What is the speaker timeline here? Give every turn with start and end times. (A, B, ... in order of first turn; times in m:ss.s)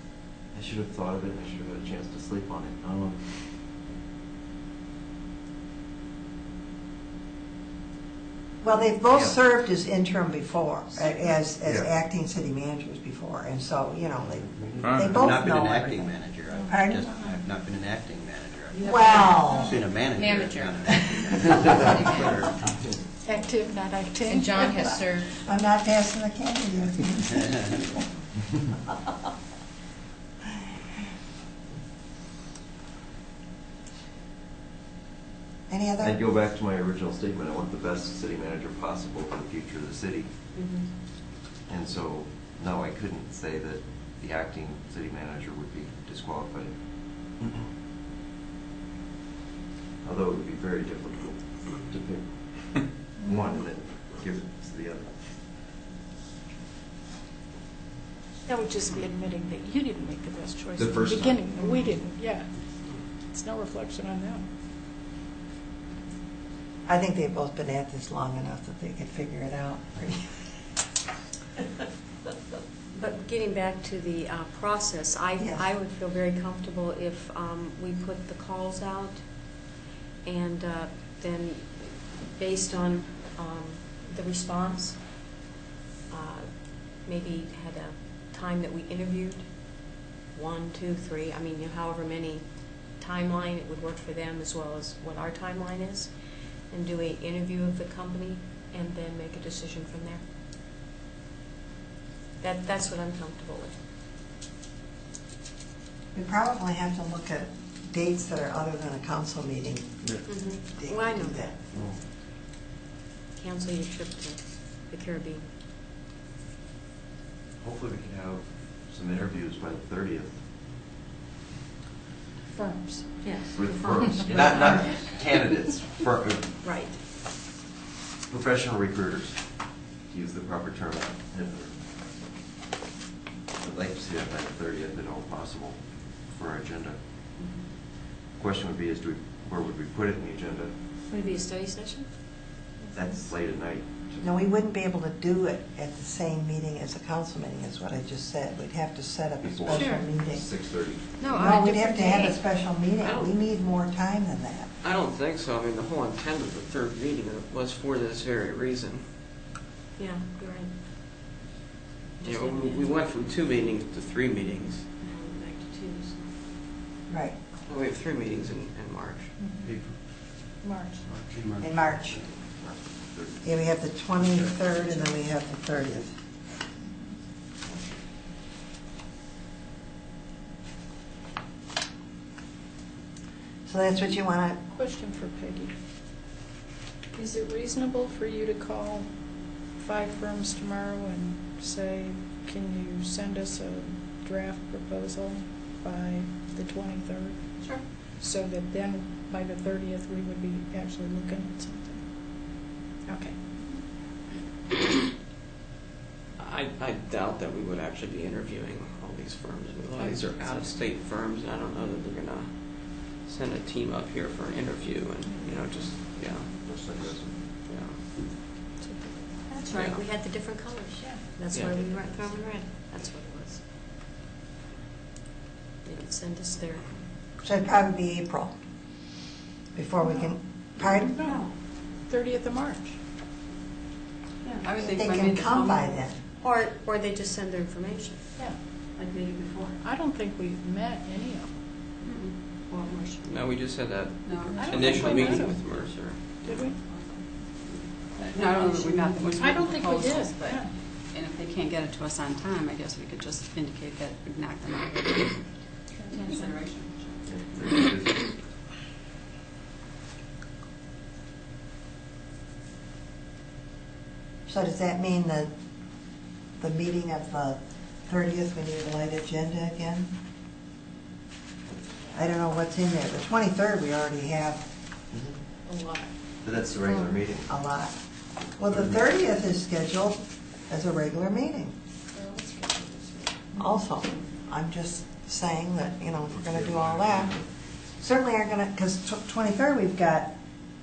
0:00.5-0:03.2 A
0:08.6-0:17.1 B
0:09.1-0:09.4 A
0:14.6-0:14.9 A
0:14.7-0:18.8 C
0:16.5-0:17.3 D
0:18.8-0:19.8 B
0:18.9-0:19.4 E
0:19.6-0:22.7 C
0:20.1-0:22.4 E
0:23.2-0:25.1 D
0:24.3-0:25.3 E
0:25.4-0:28.0 B
0:35.7-0:36.2 B
0:36.0-0:40.3 A
0:40.5-0:40.9 F
0:41.7-0:46.8 A
0:50.0-0:55.2 A
0:58.4-1:04.4 D
1:00.8-1:01.5 A
1:06.8-1:10.4 B
1:12.9-1:19.6 F
1:15.4-1:15.7 B
1:20.2-1:25.2 F
1:26.1-1:36.2 F
1:36.7-1:40.2 F
1:42.4-1:43.8 F
1:46.1-1:51.6 B
1:50.2-1:51.6 F
1:53.3-1:55.5 F
1:57.6-2:00.4 A
2:02.6-2:03.0 D
2:02.6-2:04.9 F
2:03.5-2:06.5 A
2:06.6-2:07.0 F
2:08.3-2:11.8 A
2:13.6-2:17.0 A
2:17.4-2:17.6 F
2:18.4-2:20.7 A
2:21.1-2:22.1 F
2:22.9-2:24.4 A
2:24.2-2:30.5 B
2:29.4-2:31.2 A
2:29.7-2:30.0 F
2:31.2-2:32.3 F
2:31.3-2:34.7 B
2:33.0-2:33.3 G
2:34.8-2:39.1 G
2:40.0-2:40.7 F
2:42.2-2:44.8 G
2:42.2-2:42.8 F
2:45.0-2:46.4 F
2:47.1-2:47.4 B
2:47.6-2:49.3 G
2:49.4-2:49.6 D
2:50.6-2:51.0 D
2:51.1-2:52.2 C
2:51.6-2:52.2 B
2:52.4-2:53.4 A
2:53.4-2:56.1 B
3:03.6-3:04.6 B
3:04.7-3:05.7 D
3:07.1-3:22.0 D
3:23.0-3:23.3 D
3:26.4-3:37.1 G
3:30.0-3:30.2 D
3:36.6-3:37.4 A
3:37.6-3:38.0 G
3:39.4-3:43.6 F
3:39.7-3:40.0 G
3:45.8-3:47.0 F
3:47.4-3:48.5 B
3:49.7-3:51.2 B
3:50.0-3:50.3 D
3:51.2-3:51.4 D
3:51.2-3:51.5 F
3:52.0-3:53.0 D
3:54.6-3:56.1 E
3:54.8-3:56.1 B
3:56.4-3:58.2 F
3:59.0-3:59.7 E
3:59.2-3:59.7 F
3:59.8-4:01.5 D
4:02.0-4:03.2 F
4:03.2-4:06.4 G
4:04.2-4:05.9 E
4:04.5-4:05.6 D
4:06.4-4:06.8 D
4:06.5-4:07.2 E
4:08.2-4:17.8 E
4:08.3-4:10.7 D
4:17.3-4:18.4 A
4:24.4-4:25.5 B
4:26.6-4:30.1 B
4:32.1-4:34.6 B
4:35.1-4:35.4 A
4:35.6-4:36.1 F
4:36.4-4:37.5 A
4:36.8-4:37.1 F
4:37.5-4:37.9 B
4:38.6-4:41.7 B
4:38.6-4:39.0 A
4:42.1-4:43.5 F
4:43.5-4:47.4 B
4:46.5-4:47.4 A
4:48.0-4:50.4 B